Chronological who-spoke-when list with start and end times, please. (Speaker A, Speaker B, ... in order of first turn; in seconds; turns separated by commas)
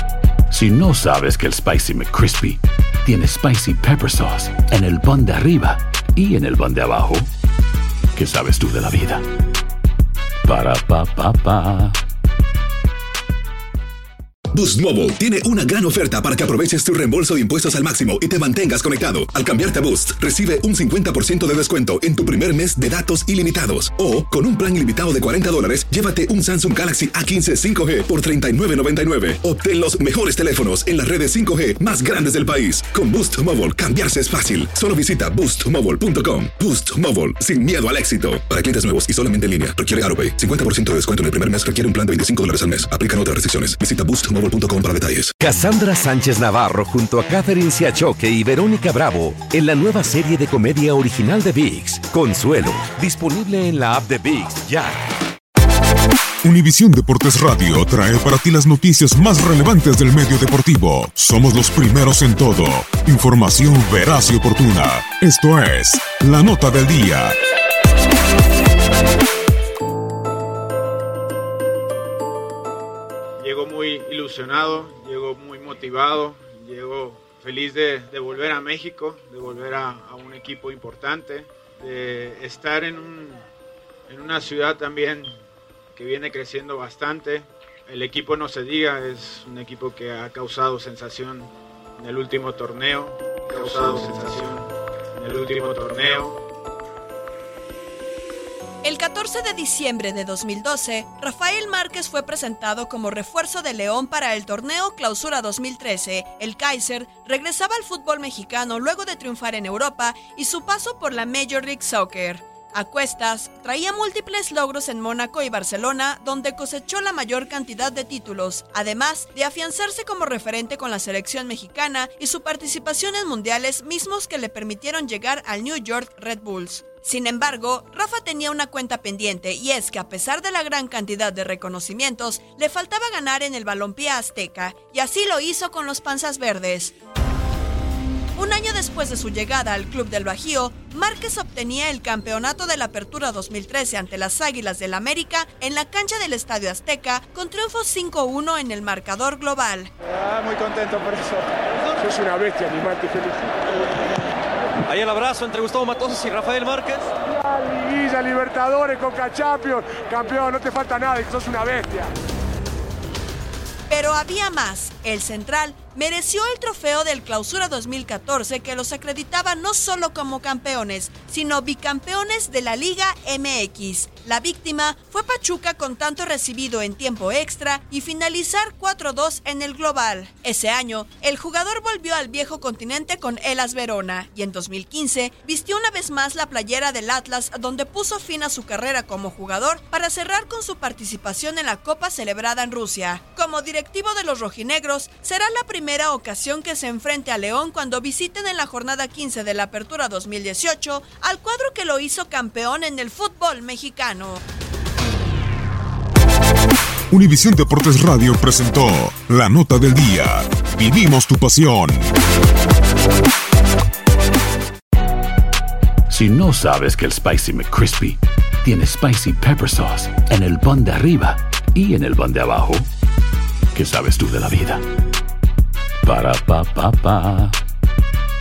Speaker A: 0.5-7.3, Speaker A: 8.2-9.2, Speaker A: 10.4-12.0, Speaker B: 14.5-45.4, Speaker C: 45.4-55.0, Speaker D: 56.4-67.4, Speaker E: 73.4-83.4, Speaker E: 84.1-85.3, Speaker E: 86.0-96.4, Speaker F: 98.8-136.9, Speaker F: 138.4-149.9, Speaker G: 152.2-153.4, Speaker H: 154.9-157.0, Speaker G: 157.9-162.1, Speaker F: 163.9-204.4, Speaker D: 207.1-212.1, Speaker A: 216.1-222.9, Speaker A: 223.7-224.8, Speaker A: 226.0-227.6